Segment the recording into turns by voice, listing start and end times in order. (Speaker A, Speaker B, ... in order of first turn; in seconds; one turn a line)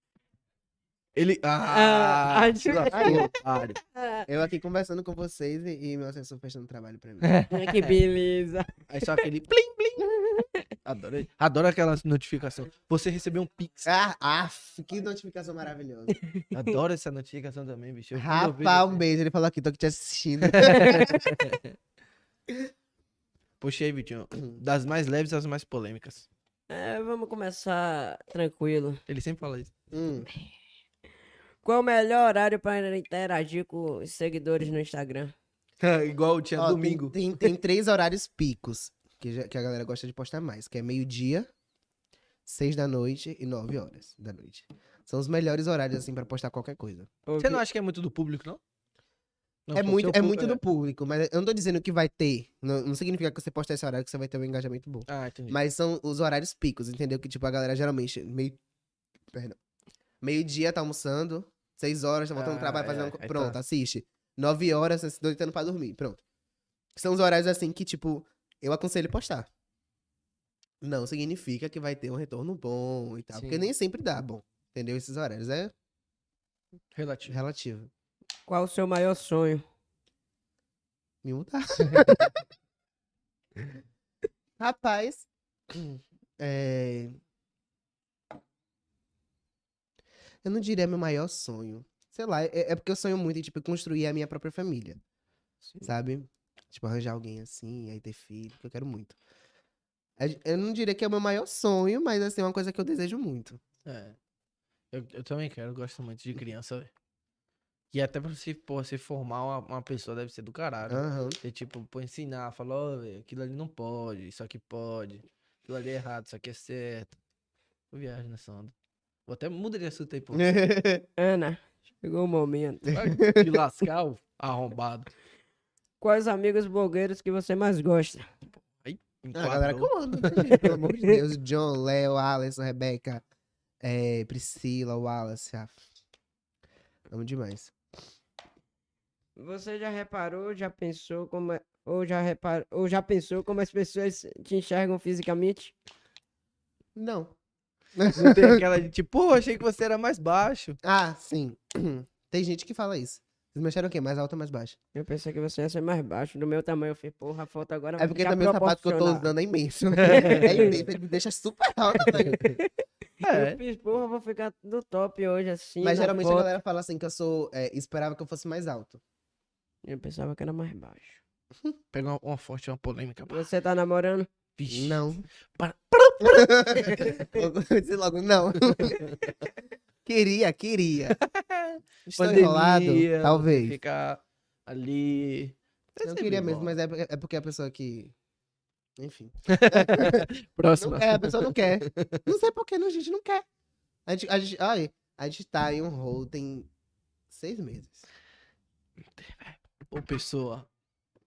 Speaker A: 1.1-3.8
Speaker B: 1.7-4.3
Speaker C: 2.9-3.3
Speaker C: 4.3-7.3
Speaker A: 7.2-7.9
Speaker B: 7.5-9.2
Speaker A: 8.9-10.1
Speaker B: 10.3-10.7
Speaker A: 10.8-13.9
Speaker C: 13.8-16.1
Speaker B: 16.1-16.6
Speaker A: 16.5-19.0
Speaker C: 18.1-21.1
Speaker A: 20.4-21.6
Speaker B: 20.7-21.2
Speaker A: 23.6-26.3
Speaker B: 26.7-29.0
Speaker A: 29.1-29.7
Speaker C: 29.9-30.3
Speaker B: 31.6-35.3
Speaker A: 35.8-37.2
Speaker C: 36.5-41.5
Speaker C: 42.5-47.1
Speaker B: 47.2-47.6
Speaker A: 47.4-48.6
Speaker A: 49.7-50.6
Speaker C: 49.7-58.6
Speaker A: 55.1-55.6
Speaker C: 59.3-59.6
Speaker C: 60.2-66.2
Speaker A: 62.3-63.6
Speaker C: 67.0-69.5
Speaker C: 70.8-75.7
Speaker A: 73.3-73.7
Speaker A: 76.9-77.4
Speaker C: 77.3-77.9
Speaker B: 78.5-79.6
Speaker C: 81.2-82.4
Speaker C: 84.6-87.2
Speaker C: 90.4-95.0
Speaker C: 95.8-99.2
Speaker C: 100.2-103.6
Speaker A: 103.8-104.2
Speaker A: 104.9-106.9
Speaker A: 107.9-117.2
Speaker C: 110.9-111.4
Speaker A: 117.9-118.7
Speaker A: 119.3-120.6
Speaker C: 120.3-121.0
Speaker B: 121.2-123.0
Speaker C: 122.9-123.6
Speaker A: 122.9-125.1
Speaker B: 126.0-128.3
Speaker A: 128.6-130.6
Speaker C: 129.3-133.2
Speaker B: 130.6-131.2
Speaker C: 133.8-135.8
Speaker C: 137.1-137.7
Speaker B: 139.4-145.7
Speaker C: 146.9-147.3
Speaker C: 147.9-148.6
Speaker A: 148.1-150.8
Speaker C: 150.8-154.8
Speaker B: 154.9-159.3
Speaker C: 158.0-162.6
Speaker A: 160.0-160.8
Speaker B: 160.1-160.8
Speaker B: 162.0-162.7
Speaker B: 163.2-166.5
Speaker A: 163.2-163.6
Speaker C: 165.8-169.0
Speaker B: 169.8-171.2
Speaker A: 171.9-173.5
Speaker B: 173.3-174.3
Speaker A: 174.6-177.3
Speaker C: 174.7-175.2
Speaker C: 176.2-179.0
Speaker B: 176.9-177.2
Speaker A: 178.9-179.1
Speaker B: 178.9-179.3
Speaker C: 180.0-181.2
Speaker A: 181.1-186.7
Speaker C: 182.1-183.8
Speaker C: 186.0-188.1
Speaker C: 189.0-193.4
Speaker A: 189.5-192.2
Speaker C: 194.1-196.7
Speaker C: 197.3-198.1
Speaker A: 199.1-200.7